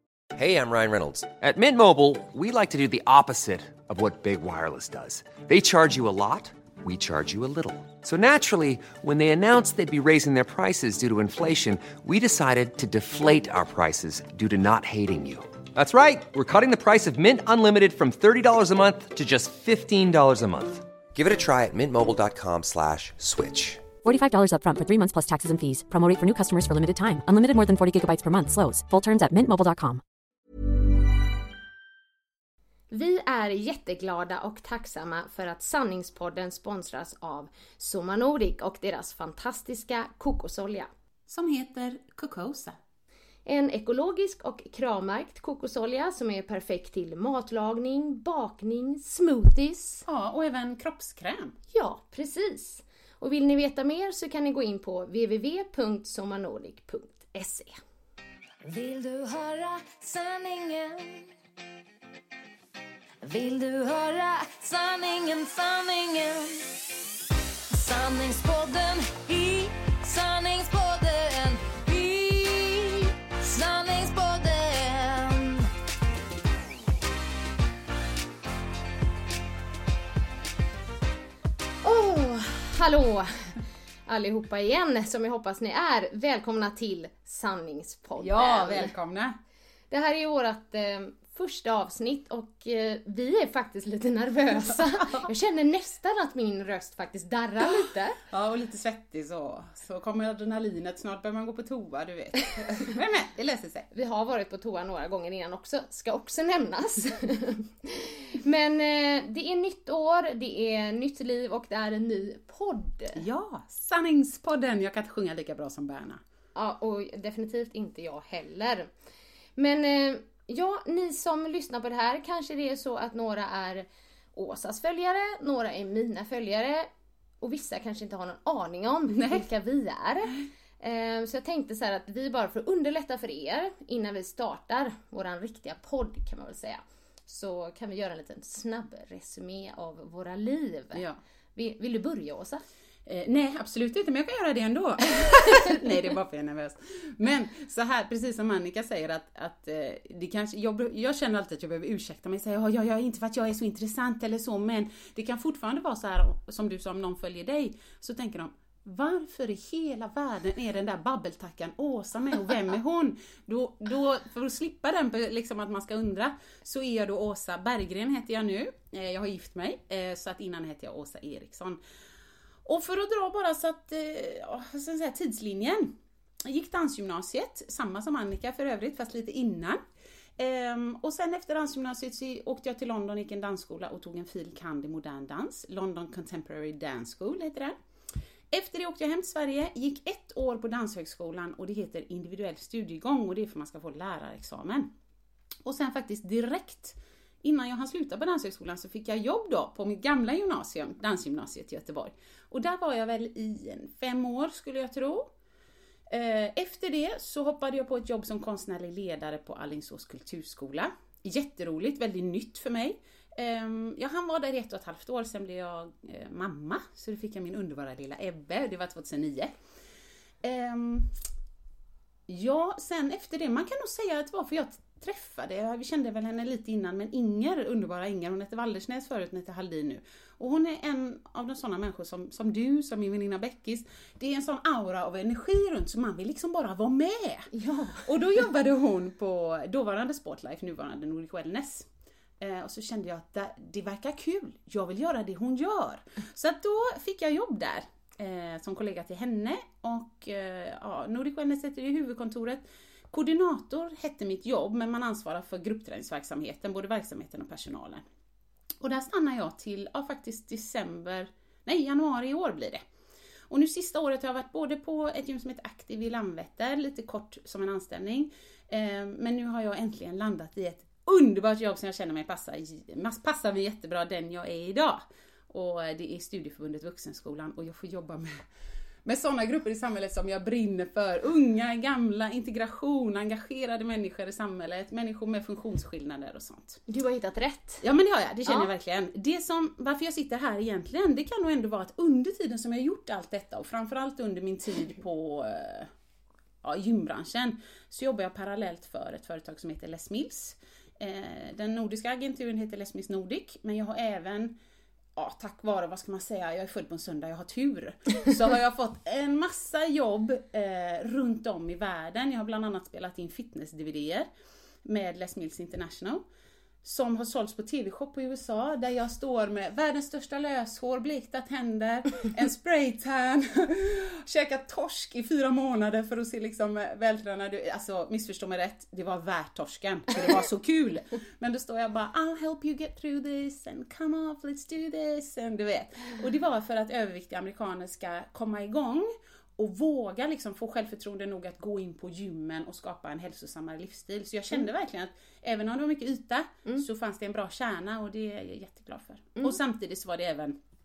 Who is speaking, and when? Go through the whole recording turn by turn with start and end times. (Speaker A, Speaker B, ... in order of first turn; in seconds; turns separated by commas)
Speaker A: 0.3-23.9, Speaker B: 24.0-30.0, Speaker C: 32.9-40.9, Speaker D: 41.3-42.8, Speaker C: 43.5-50.0, Speaker D: 50.0-51.6, Speaker C: 51.7-57.7, Speaker E: 58.6-61.3, Speaker E: 63.2-66.7, Speaker E: 67.7-75.7, Speaker C: 81.8-88.9, Speaker D: 88.2-89.4, Speaker C: 89.9-98.2, Speaker D: 95.0-95.3, Speaker D: 98.3-103.9, Speaker C: 103.9-113.2, Speaker D: 113.2-116.2, Speaker C: 116.5-118.9, Speaker C: 119.6-126.9, Speaker C: 127.4-141.0, Speaker D: 129.1-129.5, Speaker C: 141.6-142.6, Speaker D: 143.1-171.8, Speaker D: 172.7-179.8, Speaker D: 180.4-187.8, Speaker D: 188.5-194.9, Speaker D: 195.7-205.3, Speaker D: 206.1-219.5, Speaker D: 220.4-221.2, Speaker D: 222.3-237.5, Speaker C: 237.5-238.1, Speaker D: 238.0-241.9, Speaker D: 242.4-258.0, Speaker D: 258.8-262.8, Speaker D: 263.5-278.4, Speaker D: 279.1-286.8, Speaker C: 286.9-287.9, Speaker D: 287.8-295.9, Speaker D: 296.6-304.6, Speaker D: 305.2-314.3, Speaker D: 314.8-316.2, Speaker D: 316.8-350.6